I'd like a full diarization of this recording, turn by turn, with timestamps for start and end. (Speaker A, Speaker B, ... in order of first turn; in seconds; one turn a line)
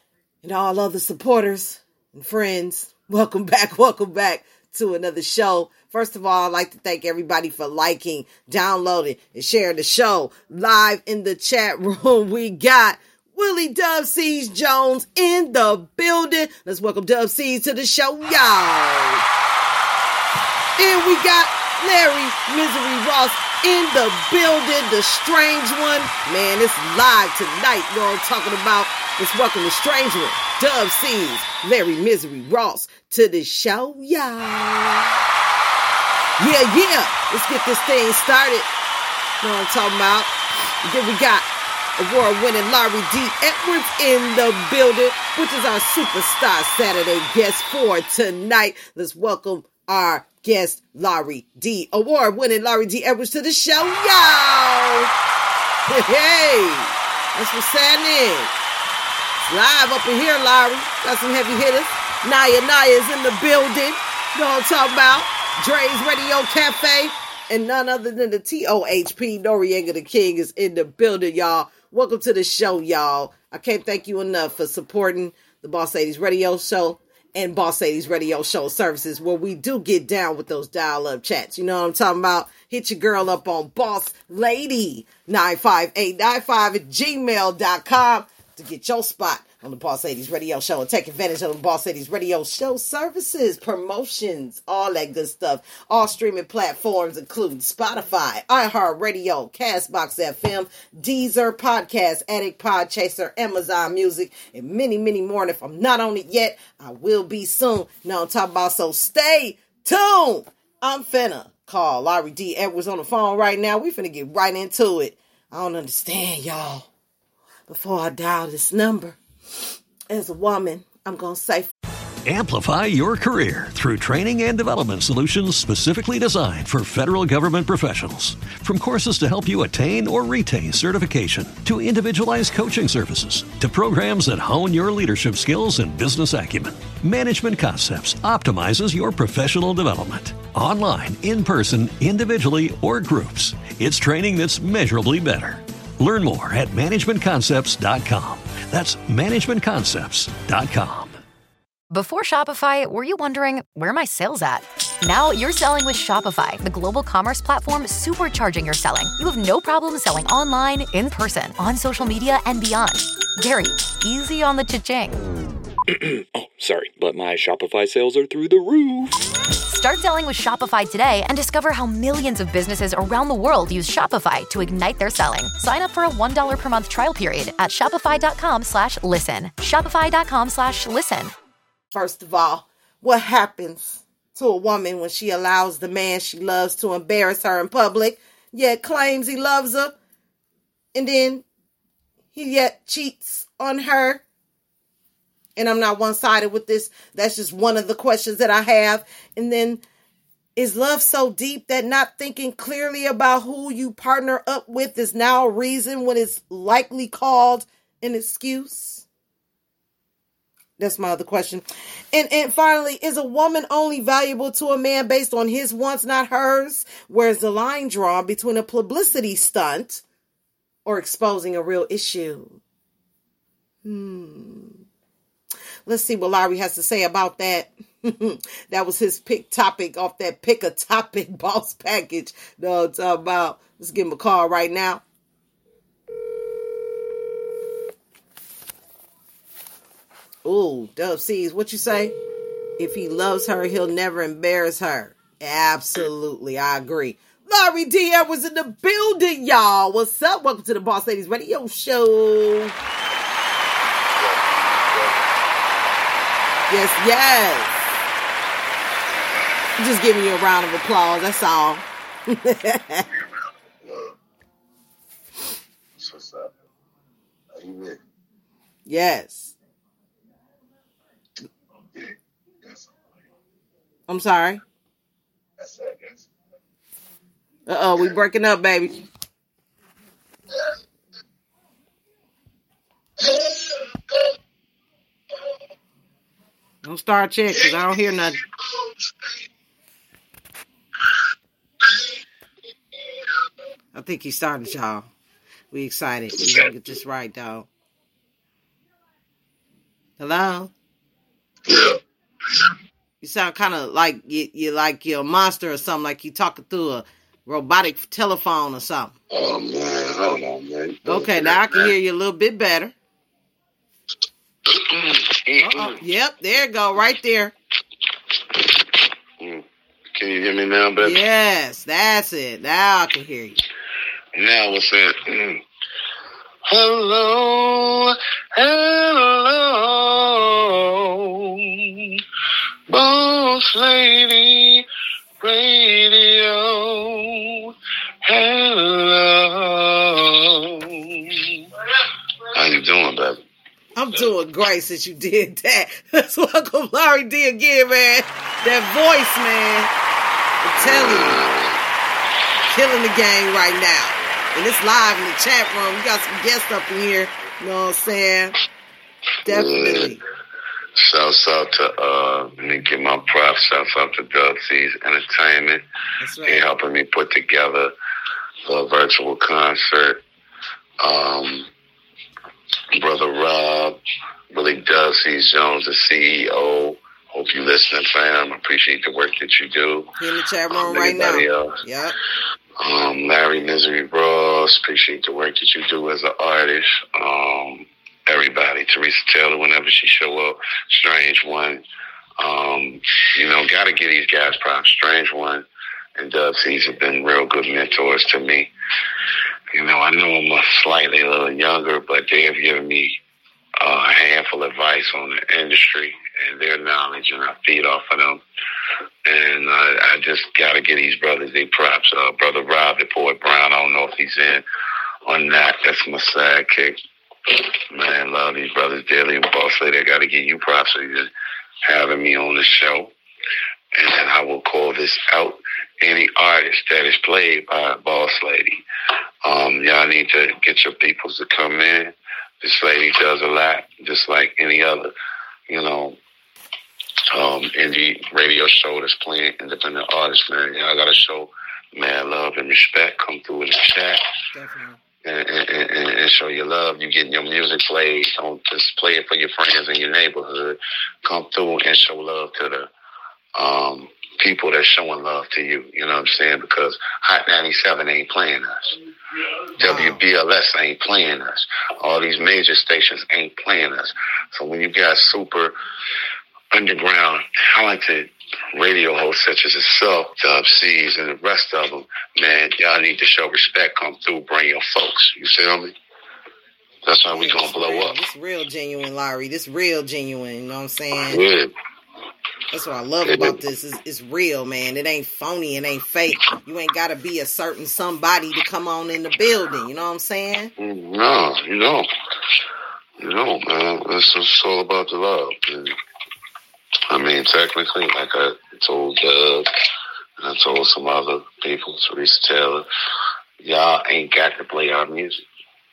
Speaker A: 0.4-19.2
Speaker A: 20.8-35.1
Speaker A: 36.4-38.7
Speaker A: 39.4-40.3
Speaker A: 40.8-41.5
Speaker A: 42.0-55.1
Speaker A: 55.9-58.5
Speaker A: 59.5-116.9
Speaker A: 117.7-119.2
Speaker A: 120.1-121.7
Speaker B: 122.3-151.2
Speaker C: 151.9-165.2
Speaker D: 165.9-169.2
Speaker C: 169.7-181.3
Speaker A: 181.9-189.9
Speaker A: 190.9-191.4
Speaker A: 192.3-194.2
Speaker A: 195.6-199.8
Speaker A: 200.6-209.0
Speaker A: 210.8-220.0
Speaker A: 220.9-222.6
Speaker A: 223.8-224.8
Speaker A: 225.9-235.0
Speaker A: 240.4-242.1
Speaker A: 242.8-252.7
Speaker A: 256.7-257.8
Speaker A: 259.8-263.1
Speaker E: 263.8-264.1
Speaker E: 266.0-266.5
Speaker E: 267.5-268.0
Speaker A: 268.9-269.5
Speaker A: 274.1-274.6
Speaker A: 277.7-278.9
Speaker A: 286.8-288.4
Speaker A: 293.9-295.1
Speaker A: 295.7-297.7
Speaker E: 296.4-296.7
Speaker A: 300.2-300.7
Speaker E: 301.7-301.9
Speaker A: 303.2-309.1
Speaker E: 309.3-311.9
Speaker A: 311.1-312.9
Speaker E: 314.7-315.9
Speaker A: 315.6-317.5
Speaker E: 319.4-321.2
Speaker A: 321.0-323.6
Speaker E: 324.4-325.6
Speaker E: 326.7-332.2
Speaker E: 332.9-334.9
Speaker E: 335.4-341.6
Speaker E: 342.6-343.4
Speaker A: 343.9-349.9
Speaker A: 350.6-351.4
Speaker E: 350.8-351.8
Speaker A: 352.7-358.6
Speaker A: 359.4-360.2
Speaker E: 359.5-360.2
Speaker E: 361.0-365.8
Speaker A: 366.2-366.7
Speaker E: 366.4-367.9
Speaker E: 368.7-370.2
Speaker E: 371.0-371.7
Speaker E: 372.9-374.0
Speaker E: 374.5-380.1
Speaker A: 380.2-382.1
Speaker E: 380.7-381.8
Speaker E: 382.8-391.8
Speaker E: 392.4-395.6
Speaker E: 396.2-398.7
Speaker E: 399.7-403.2
Speaker E: 403.8-408.4
Speaker E: 409.3-414.6
Speaker E: 415.3-417.0
Speaker E: 417.9-421.3
Speaker E: 421.9-423.1
Speaker E: 423.9-428.8
Speaker E: 429.4-435.1
Speaker E: 435.7-436.2
Speaker E: 437.3-444.2
Speaker A: 444.5-445.0
Speaker E: 445.2-452.9
Speaker E: 453.6-459.0
Speaker E: 459.8-465.7
Speaker A: 459.8-460.2
Speaker E: 466.7-475.9
Speaker E: 477.1-478.1
Speaker A: 477.3-481.4
Speaker E: 481.3-481.7
Speaker A: 482.7-490.7
Speaker E: 483.2-483.6
Speaker E: 490.8-492.1
Speaker E: 493.2-495.9
Speaker E: 497.1-499.7
Speaker E: 500.4-502.9
Speaker E: 503.6-505.4